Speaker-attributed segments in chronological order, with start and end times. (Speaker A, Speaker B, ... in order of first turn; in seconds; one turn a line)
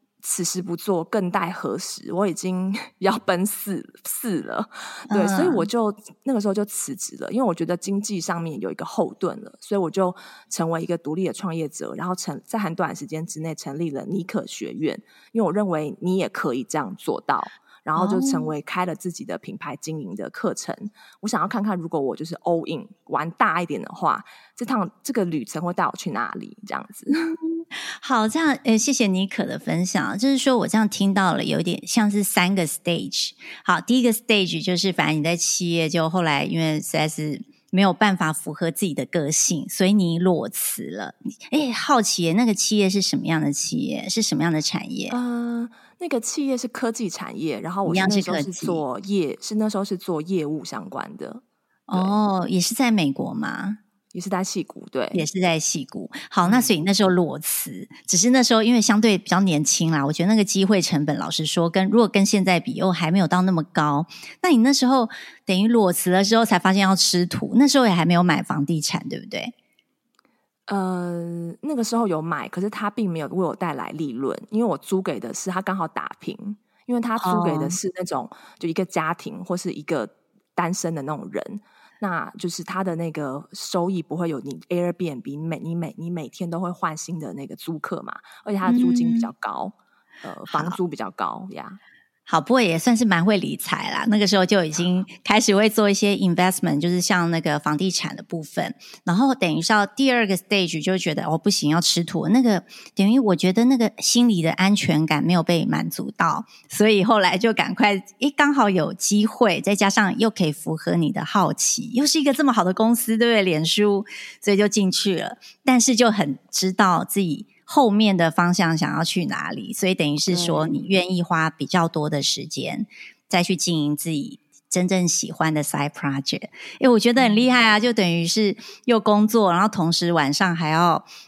Speaker A: 0.2-27.3
Speaker B: 5.1-5.7
Speaker B: 18.0-18.5
Speaker B: 27.2-45.2
Speaker A: 45.1-52.2
Speaker B: 47.9-48.8
Speaker B: 51.9-53.8
Speaker A: 54.1-55.2
Speaker B: 55.1-69.5
Speaker A: 56.4-56.7
Speaker A: 70.7-91.8
Speaker B: 77.2-77.8
Speaker B: 88.7-89.3
Speaker B: 90.5-90.8
Speaker B: 92.3-131.1
Speaker A: 120.2-120.8